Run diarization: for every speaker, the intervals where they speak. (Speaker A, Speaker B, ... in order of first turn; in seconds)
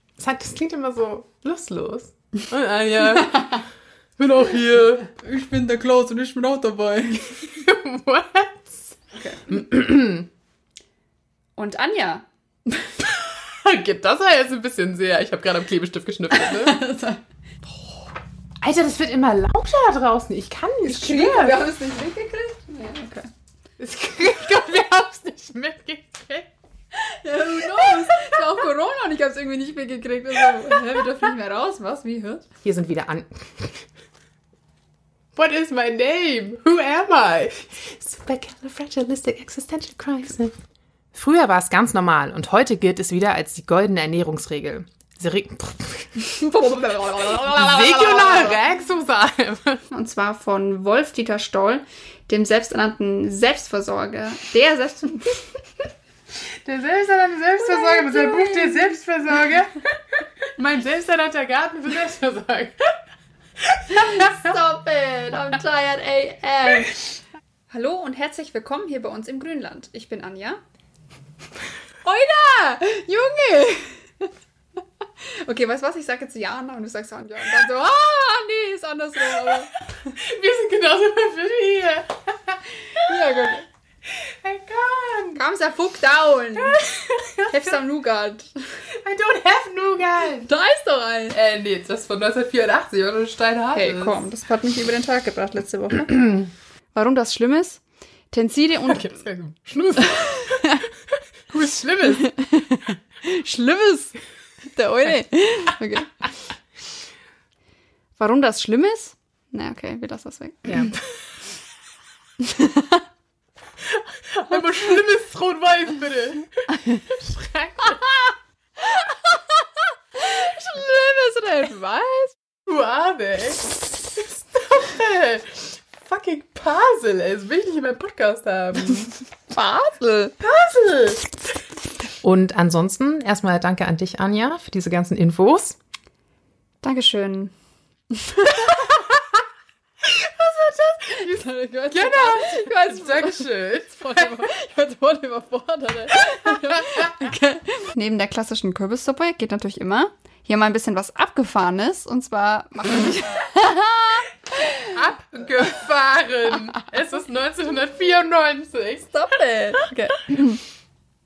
Speaker A: 0.2-3.6, 4.2-5.1, 7.4-8.9, 9.5-10.3, 13.0-16.8, 18.6-21.7, 23.8-26.5, 27.7-27.9, 32.6-33.9, 35.4-40.5, 41.1-46.2, 47.3-49.8, 56.6-63.0, 63.7-64.5, 79.4-83.5, 84.1-85.4, 86.5-87.8, 88.9-90.5, 91.3-94.2, 96.1-96.4, 98.8-100.8, 101.5-102.4, 110.7-111.0, 113.9-118.3, 122.6-129.1, 130.4-131.4, 132.2-135.8, 140.5-141.4, 141.9-144.5, 146.6-147.0, 154.8-159.1
Speaker B: 3.2-3.6, 5.0-7.5, 9.2-9.6, 11.6-12.9, 16.3-17.9, 20.8-23.3, 26.9-32.5, 46.2-48.6, 49.9-55.5, 57.6-59.0, 63.9-67.1, 67.7-70.6, 72.0-74.3, 75.2-79.7, 82.9-83.6, 85.3-88.6, 90.4-91.4, 93.7-96.4, 96.9-99.2, 100.0-100.9, 102.1-104.2, 104.7-106.2, 108.2-111.0, 112.4-113.0, 118.8-119.5, 120.1-122.4, 129.5-130.4, 136.8-137.5, 138.1-139.1, 140.1-154.9, 159.1-160.6